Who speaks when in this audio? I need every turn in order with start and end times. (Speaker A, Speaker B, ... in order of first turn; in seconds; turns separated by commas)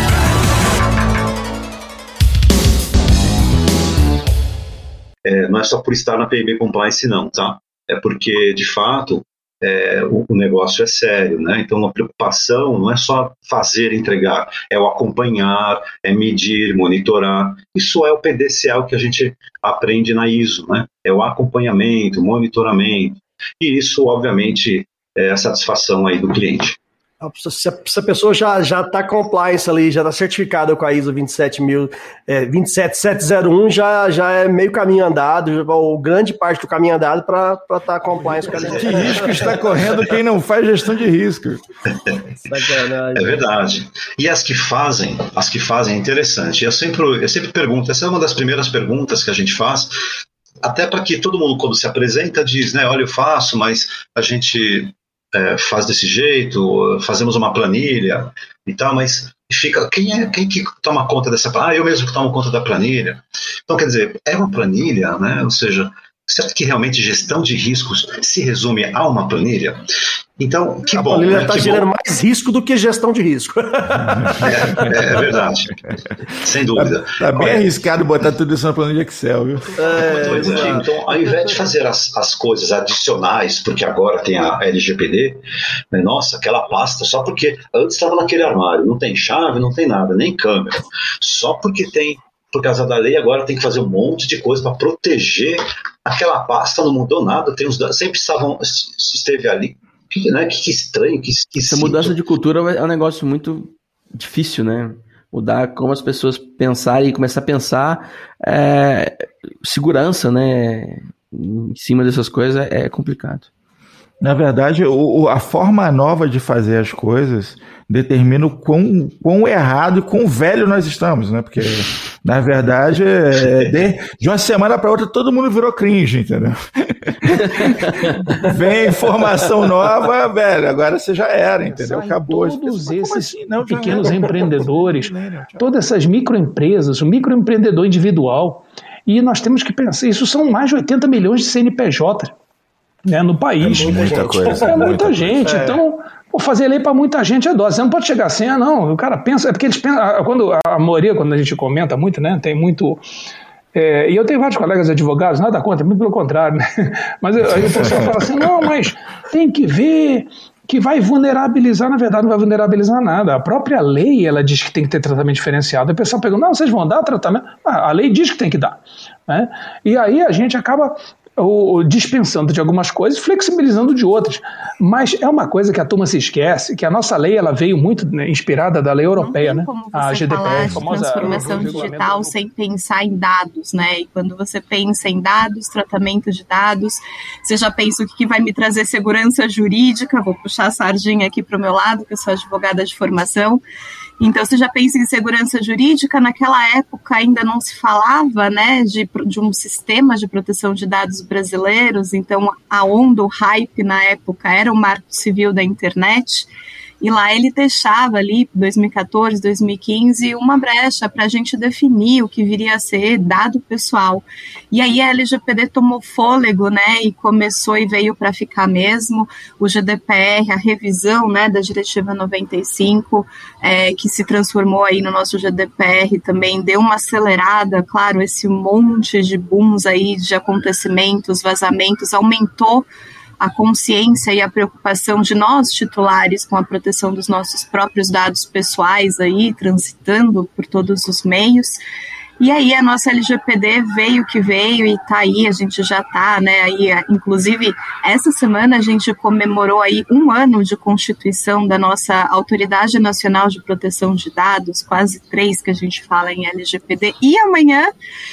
Speaker A: 5.2-26.8, Speaker B: 27.2-39.5, Speaker C: 38.6-41.6, Speaker B: 42.5-43.4, Speaker A: 42.5-49.9, Speaker A: 50.6-69.8, Speaker A: 70.4-71.9, Speaker B: 70.9-74.8, Speaker A: 74.5-75.7, Speaker A: 76.4-77.7, Speaker C: 76.8-79.7, Speaker B: 79.8-81.6, Speaker A: 79.9-85.4, Speaker C: 80.3-80.7, Speaker A: 85.9-102.2, Speaker D: 101.7-113.5, Speaker C: 114.2-135.8, Speaker E: 131.7-142.3, Speaker E: 143.1-153.0, Speaker B: 143.7-144.9, Speaker C: 144.7-145.4, Speaker E: 153.7-182.4, Speaker C: 157.6-158.1, Speaker F: 179.1-193.6, Speaker F: 194.2-206.5, Speaker F: 207.0-232.9, Speaker F: 233.4-241.8, Speaker F: 242.4-257.9